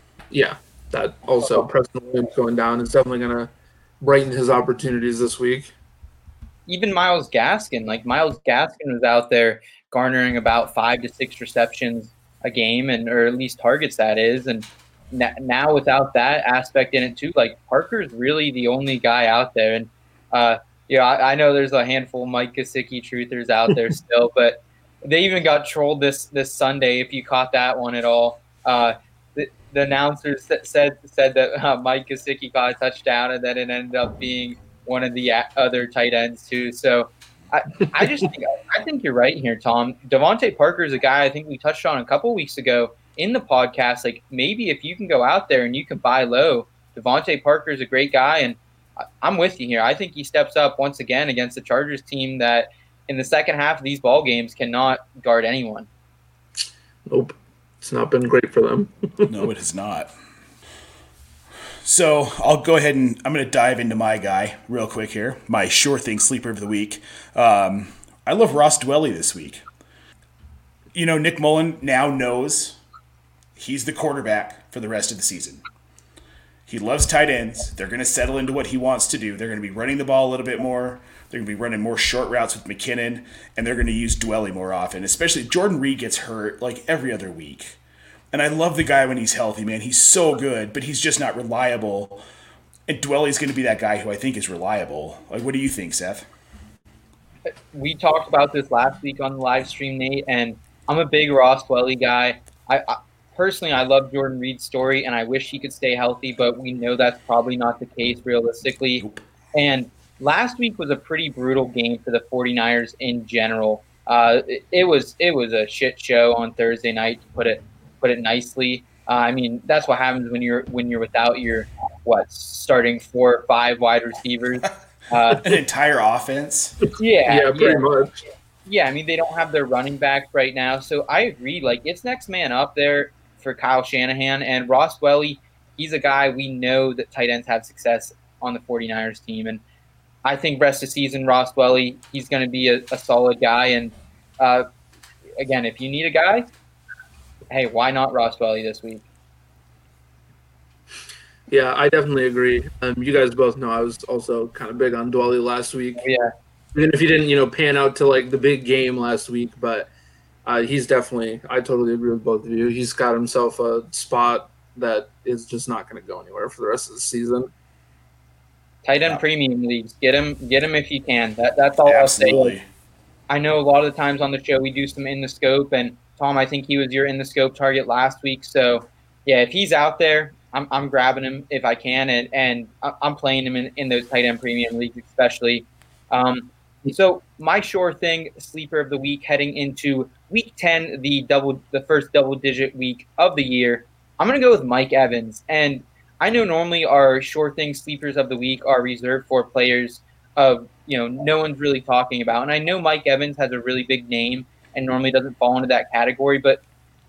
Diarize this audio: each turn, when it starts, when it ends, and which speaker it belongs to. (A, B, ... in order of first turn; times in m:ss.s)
0:00.3-0:05.7 A
0:06.7-0:48.6 B
0:49.2-0:55.9 B
0:57.1-0:59.3 A
0:59.3-1:00.1 C
1:01.8-1:09.6 C
1:10.9-1:12.8 C
1:13.6-1:15.6 C
1:16.7-1:27.8 C
1:28.3-1:32.2 C
1:32.9-1:36.3 C
1:37.5-2:05.4 B
2:05.4-2:06.8 C
2:07.0-2:07.8 B
2:07.3-2:08.2 A
2:08.6-2:19.6 B
2:20.2-2:24.6 B
2:25.4-2:26.5 B
2:27.5-2:29.0 B
2:31.5-2:36.0 A
2:36.0-2:36.3 B
2:36.7-2:39.9 A
2:40.4-2:47.5 A
2:48.8-2:52.5 B
2:51.8-2:52.6 C
2:53.3-3:26.6 B